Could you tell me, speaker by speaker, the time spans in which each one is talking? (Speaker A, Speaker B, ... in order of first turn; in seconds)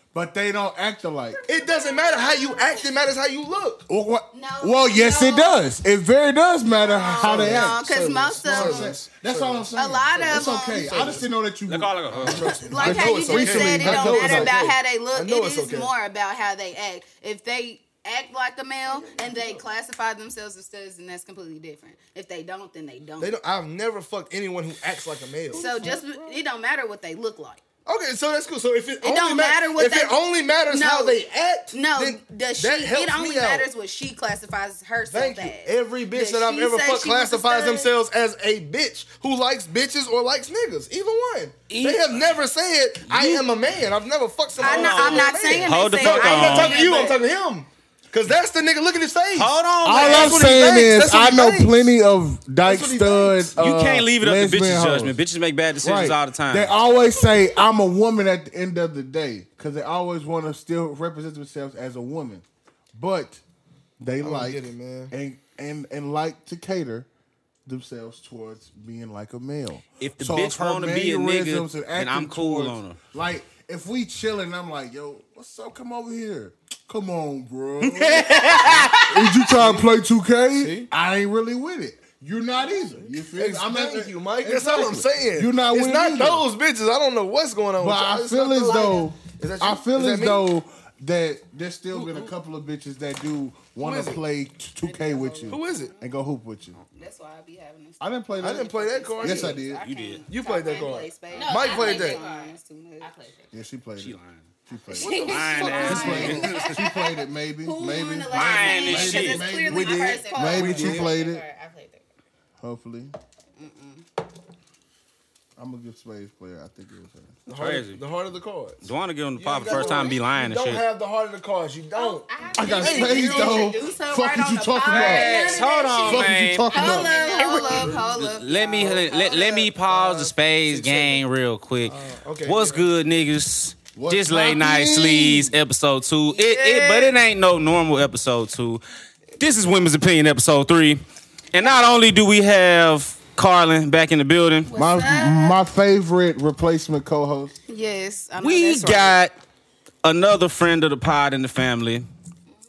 Speaker A: 0.1-1.4, 3.9-7.8, 8.4-14.6, 49.8-55.2, 55.8-63.4, 64.0-67.1, 67.7-86.5, 87.8-96.8, 98.0-99.9, 103.5-105.2, 105.8-111.4, 112.6-113.1, 115.6-117.3, 122.5-125.4, 126.0-127.1, 133.9-135.5, 144.7-147.5
Speaker B: 1.5-3.9, 7.2-11.2, 12.2-15.9, 18.9-19.6, 23.2-26.3, 27.9-33.6, 35.1-51.9, 52.6-53.5, 64.2-65.1, 79.5-79.9, 80.6-80.9, 83.2-90.5, 91.9-92.3, 93.8-94.2, 95.5-95.9, 98.4-99.6, 100.3-102.2, 104.9-106.5, 109.7-111.1, 117.5-123.6, 129.8-131.2, 131.8-132.9
Speaker C: 1.5-2.8, 4.3-5.6, 6.6-9.0, 9.7-11.0, 12.3-23.4, 25.5-27.6, 29.0-31.2, 31.7-37.9, 44.6-47.2, 88.6-89.1, 94.8-96.1, 96.9-103.1, 105.0-111.0, 113.6-114.0, 122.0-129.7, 136.3-137.2, 144.7-145.6, 147.7-149.2
Speaker D: 11.7-12.6, 41.7-42.3, 43.1-43.5, 44.6-46.9, 49.3-50.5, 53.6-56.7, 70.0-73.0, 77.8-79.5, 99.8-100.2, 104.0-104.4, 105.1-106.5, 108.3-109.5, 117.5-118.0, 118.8-120.8, 124.9-138.8, 139.4-141.0, 141.5-144.7, 148.4-149.3, 150.0-152.1
Speaker E: 100.7-103.5, 105.0-106.3, 108.3-109.3, 110.3-112.0, 119.7-120.0, 122.3-122.6, 124.9-126.0, 126.8-127.9